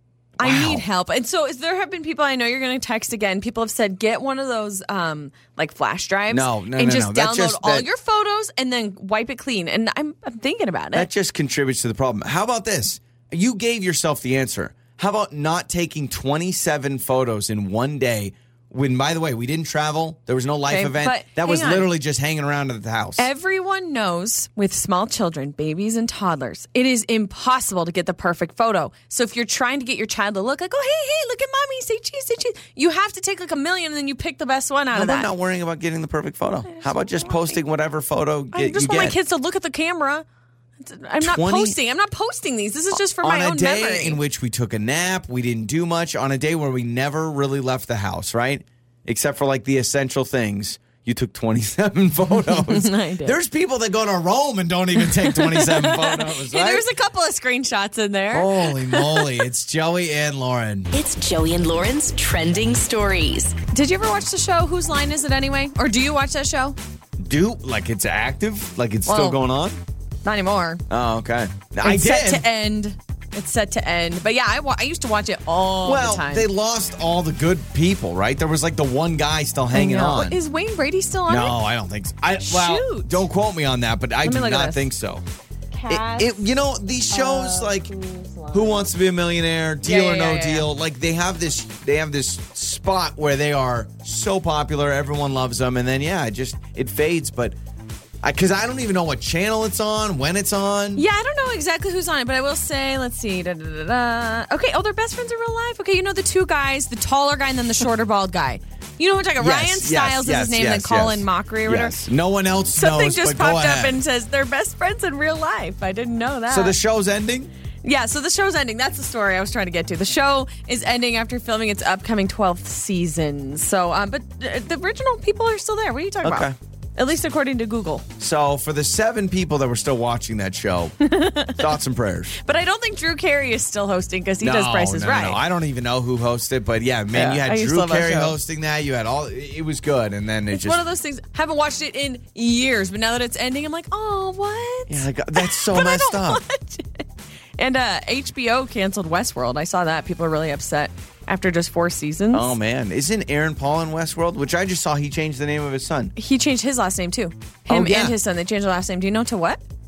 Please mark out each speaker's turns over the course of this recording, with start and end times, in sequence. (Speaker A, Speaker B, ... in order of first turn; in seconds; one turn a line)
Speaker A: 0.4-0.8
Speaker B: 0.4-11.1
Speaker A: 6.3-7.9
Speaker A: 10.9-23.3
Speaker B: 20.7-21.9
Speaker B: 23.2-35.3
Speaker A: 34.9-39.1
Speaker B: 36.7-37.6
Speaker B: 38.5-40.2
Speaker B: 40.8-44.2
Speaker A: 41.2-41.8
Speaker A: 42.9-56.8
Speaker B: 52.3-53.4
Speaker B: 55.0-59.4
Speaker A: 58.3-60.9
Speaker C: 60.9-63.6
Speaker B: 63.7-66.8
Speaker A: 67.2-69.8
Speaker B: 69.0-69.4
Speaker B: 70.2-70.8
Speaker A: 70.9-72.4
Speaker B: 71.8-76.5
Speaker A: 75.8-80.4
Speaker B: 79.7-81.6
Speaker A: 81.3-85.2
Speaker B: 82.4-83.2
Speaker B: 84.2-84.9
Speaker B: 85.7-86.5
Speaker A: 85.9-87.9
Speaker B: 87.1-88.9
Speaker A: 88.5-97.6
Speaker B: 89.8-90.7
Speaker A: 98.2-101.0
Speaker B: 101.0-112.0
Speaker A: 109.4-114.0
Speaker B: 112.8-116.8
Speaker A: 116.5-117.5
Speaker B: 117.8-128.1
Speaker A: 126.2-126.5
Speaker A: 128.2-132.3
Speaker B: 131.0-131.7
Speaker B: 132.4-135.4
Speaker A: 134.4-140.8
Speaker B: 137.1-138.3
Speaker B: 140.5-147.1
Speaker A: 144.9-146.4
Speaker B: 147.6-152.5
Speaker A: 152.3-156.1
Speaker B: 156.2-159.6
Speaker A: 157.7-158.2